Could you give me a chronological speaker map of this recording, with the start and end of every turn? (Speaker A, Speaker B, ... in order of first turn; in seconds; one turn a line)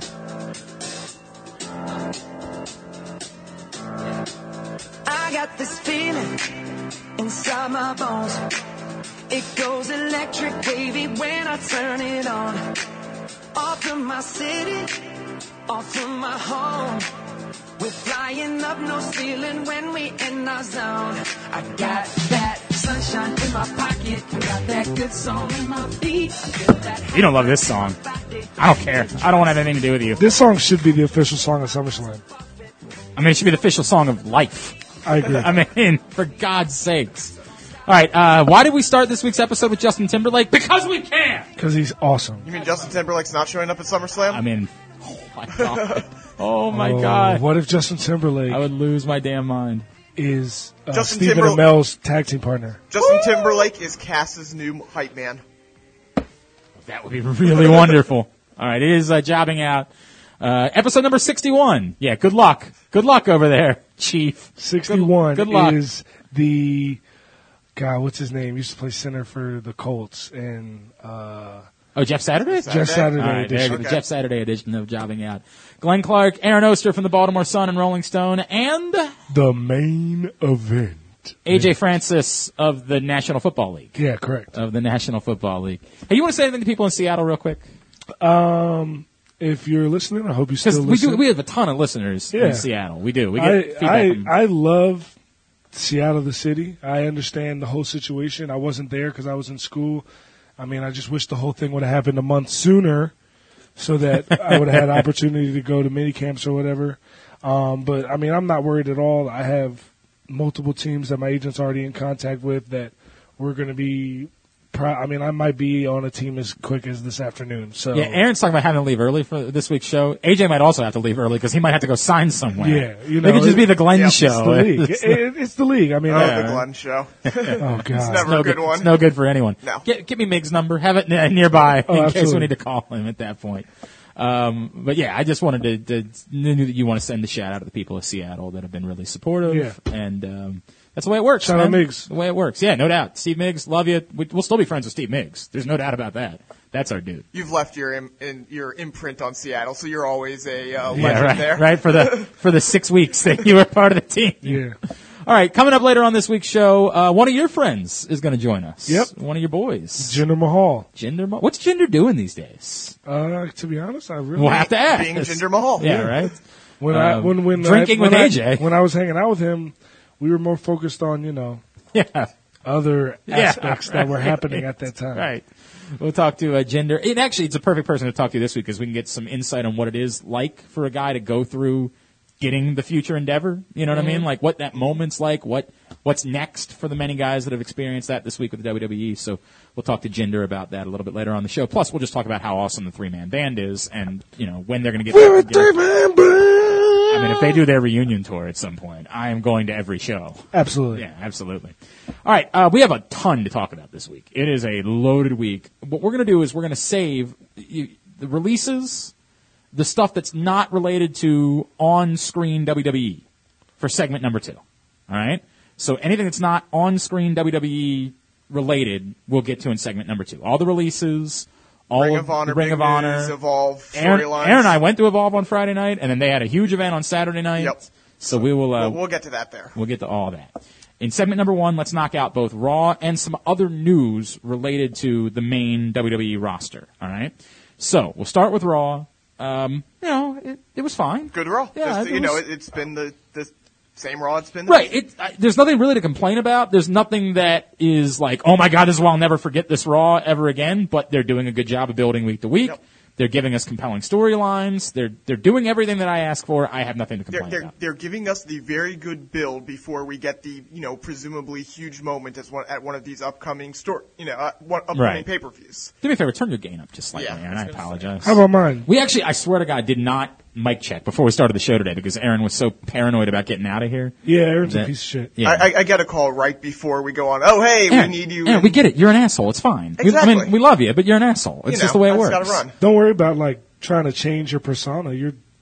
Speaker A: 5.0-6.5
Speaker A: 7.2-8.4
Speaker A: 9.3-12.6
Speaker A: 13.5-14.9
Speaker A: 15.7-17.0
Speaker A: 17.8-29.6
Speaker B: 27.1-28.0
Speaker B: 28.6-30.2
Speaker C: 30.2-32.2
Speaker B: 33.1-37.3
Speaker C: 35.0-35.5
Speaker B: 37.9-41.5
Speaker C: 41.6-42.5
Speaker D: 42.4-44.4
Speaker B: 44.3-47.4
Speaker D: 45.5-46.0
Speaker C: 46.7-48.6
Speaker B: 48.5-49.9
Speaker C: 50.1-52.8
Speaker D: 50.9-51.7
Speaker D: 52.9-55.4
Speaker B: 53.0-53.6
Speaker B: 56.8-65.8
Speaker C: 64.6-67.0
Speaker C: 67.8-71.7
Speaker B: 71.9-79.1
Speaker D: 72.5-74.0
Speaker C: 72.7-73.8
Speaker C: 79.3-81.7
Speaker B: 81.5-83.9
Speaker C: 84.0-84.5
Speaker B: 84.5-87.6
Speaker C: 88.2-91.2
Speaker B: 90.6-94.3
Speaker C: 92.3-92.7
Speaker C: 93.3-95.1
Speaker C: 95.7-100.0
Speaker C: 100.6-103.1
Speaker C: 103.8-118.2
Speaker B: 104.2-105.0
Speaker B: 117.9-125.2
Speaker C: 122.6-126.4
Speaker D: 123.9-124.2
Speaker D: 126.1-128.9
Speaker B: 126.1-126.7
Speaker C: 127.6-128.2
Speaker B: 128.1-147.2
Speaker C: 131.8-132.5
Speaker C: 139.4-139.8
Speaker C: 141.4-142.1
Speaker D: 147.3-152.3
Speaker B: 150.9-154.6
Speaker C: 150.9-151.4
Speaker C: 154.4-154.8
Speaker B: 155.2-160.2
Speaker C: 158.9-159.1
Speaker C: 160.0-160.9
Speaker B: 160.9-162.9
Speaker C: 163.1-164.7
Speaker B: 164.3-166.3
Speaker D: 164.7-165.9
Speaker C: 166.8-171.6
Speaker B: 166.9-168.7
Speaker B: 171.9-172.3
Speaker C: 172.7-175.3
Speaker B: 173.3-195.7
Speaker C: 183.9-184.2
Speaker C: 195.1-197.6
Speaker B: 197.1-209.1
Speaker C: 200.5-201.0
Speaker B: 209.7-213.2
Speaker B: 213.8-223.3
Speaker D: 221.9-224.8
Speaker B: 223.9-229.0
Speaker D: 227.6-229.7
Speaker B: 229.7-242.4
Speaker D: 241.3-244.9
Speaker B: 244.7-257.7
Speaker D: 257.3-265.9
Speaker B: 264.9-265.3
Speaker B: 266.0-275.7
Speaker D: 267.1-268.1
Speaker C: 268.2-268.9
Speaker C: 274.2-275.3
Speaker D: 275.4-278.8
Speaker B: 277.9-282.6
Speaker D: 280.0-280.5
Speaker D: 281.7-282.7
Speaker C: 282.8-285.4